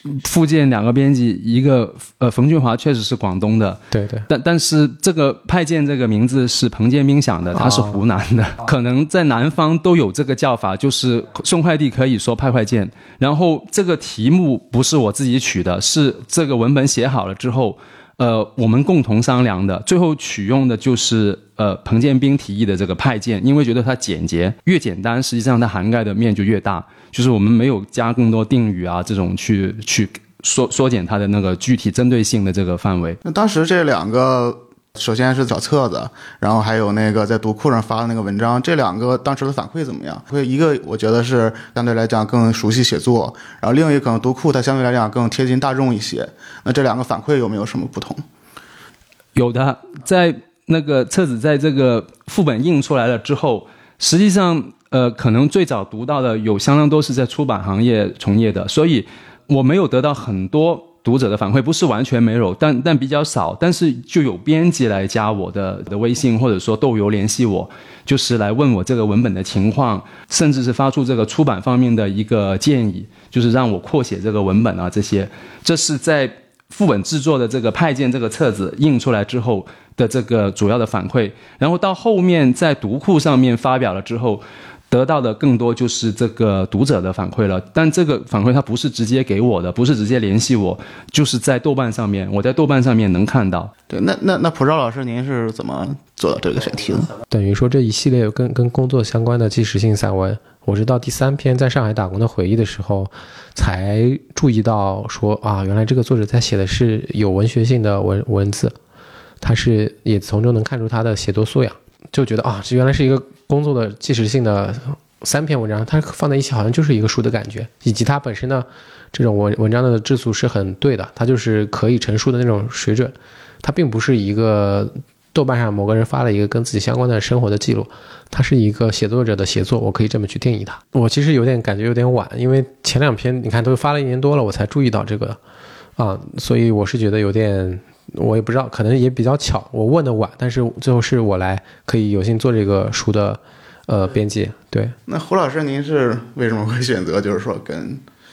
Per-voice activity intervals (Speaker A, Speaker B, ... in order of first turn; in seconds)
Speaker A: 0.1-33.2, 49.3-93.7
Speaker B: 3.9-4.3, 7.5-8.0, 97.3-108.8, 109.4-135.4, 136.0-144.9
Speaker C: 33.2-48.2, 93.9-97.1, 145.1-148.0